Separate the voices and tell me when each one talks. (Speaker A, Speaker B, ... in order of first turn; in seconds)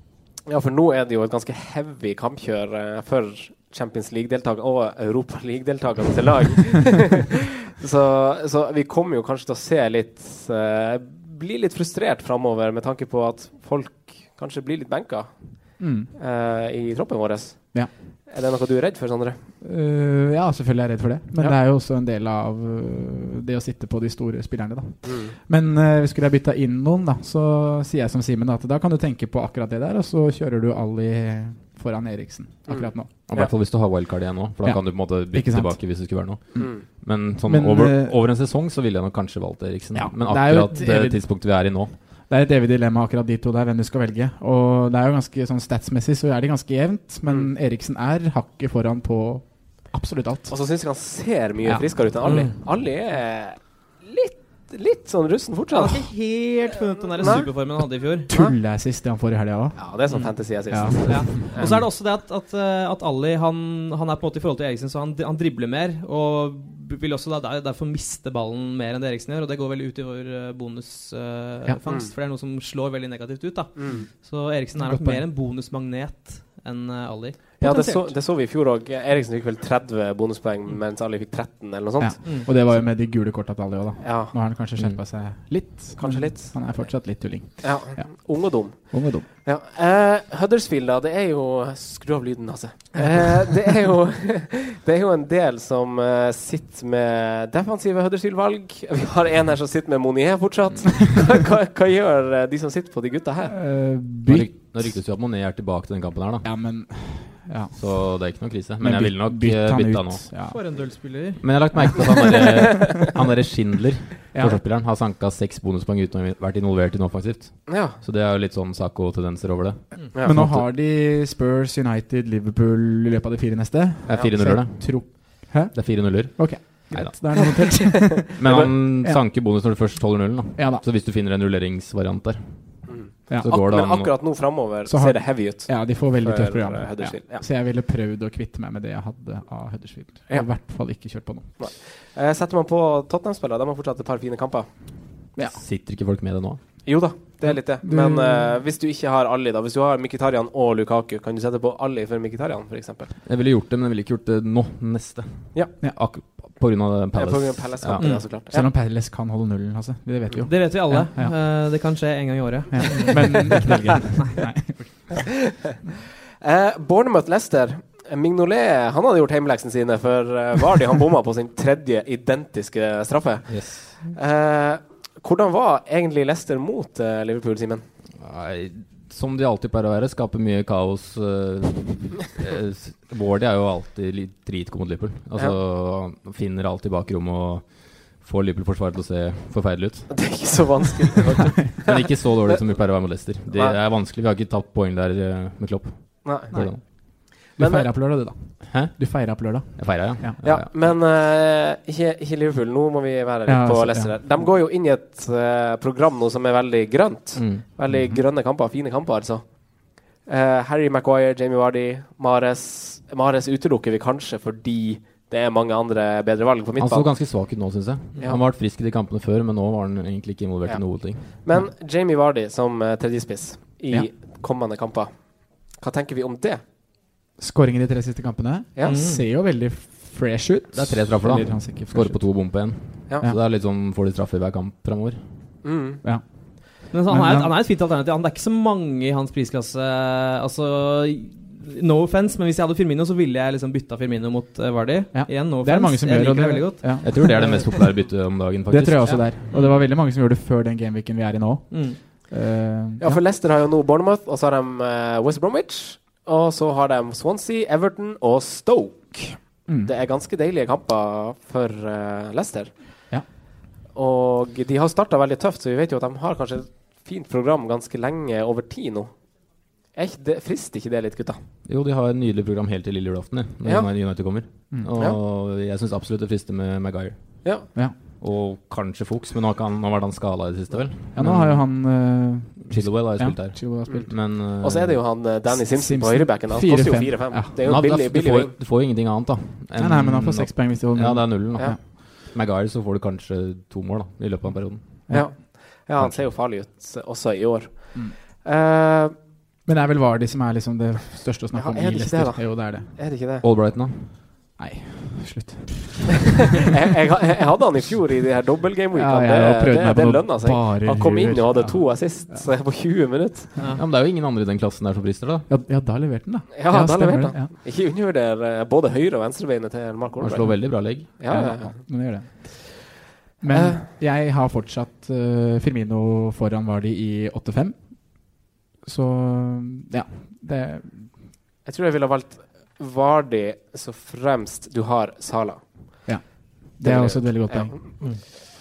Speaker A: 0.4-19.4, 25.0-25.3, 32.7-33.5, 36.6-36.8, 47.3-47.5, 50.5-56.1, 57.2-57.5, 59.8-61.8, 71.8-72.1, 73.8-74.1, 77.6-82.2, 84.0-84.3, 86.0-86.8, 87.6-103.5, 117.7-118.0, 132.9-137.4, 141.6-144.7, 146.8-153.1, 157.1-158.7, 166.4-177.8, 190.1-192.1, 193.5-193.8, 196.2-197.9, 200.4-217.1, 220.7-226.6, 235.6-236.0, 253.0-263.1, 263.9-269.3, 269.9-271.4, 273.6-274.3, 277.4-277.7, 283.9-288.5, 295.1-299.1, 301.6-303.4, 306.7-313.5, 316.5-321.8, 323.5-323.8, 331.6-336.1, 336.8-337.8
Speaker B: 15.8-16.1, 19.6-33.1, 34.6-38.2, 39.9-50.6, 51.6-52.1, 58.3-59.9, 60.4-61.9, 74.8-75.2, 82.0-89.3, 103.5-104.9, 106.4-110.6, 114.3-114.6, 120.2-129.2, 130.6-130.8, 133.3-133.6, 134.8-141.6, 147.4-148.6, 158.5-161.3, 162.7-165.5, 196.5-200.4, 203.4-204.2, 207.9-208.2, 227.4-232.6, 236.0-237.5, 245.1-247.6, 248.7-253.2, 259.7-259.9, 281.1-284.1, 285.5-287.5, 289.8-291.8, 299.6-302.9, 304.6-306.4, 308.9-312.5, 315.5-317.5, 321.3-331.1, 336.1-338.3
Speaker C: 33.2-42.0, 104.2-106.5, 107.8-110.3, 111.4-120.7, 124.0-127.5, 128.4-134.1, 145.5-146.6, 153.2-158.1, 173.5-173.9, 178.2-190.7, 191.8-196.8, 198.7-200.9, 207.3-207.7, 216.8-221.3, 230.7-235.2, 247.0-249.4, 271.6-282.0, 282.7-285.2, 287.6-295.1, 303.4-304.2, 313.8-315.5, 320.2-321.2
Speaker D: 52.2-52.5, 55.7-58.3, 60.1-78.2, 82.2-82.5, 110.5-111.8, 158.0-158.2, 160.4-163.7, 228.8-229.2, 236.9-247.3, 249.1-249.8, 251.7-252.0, 313.6-313.8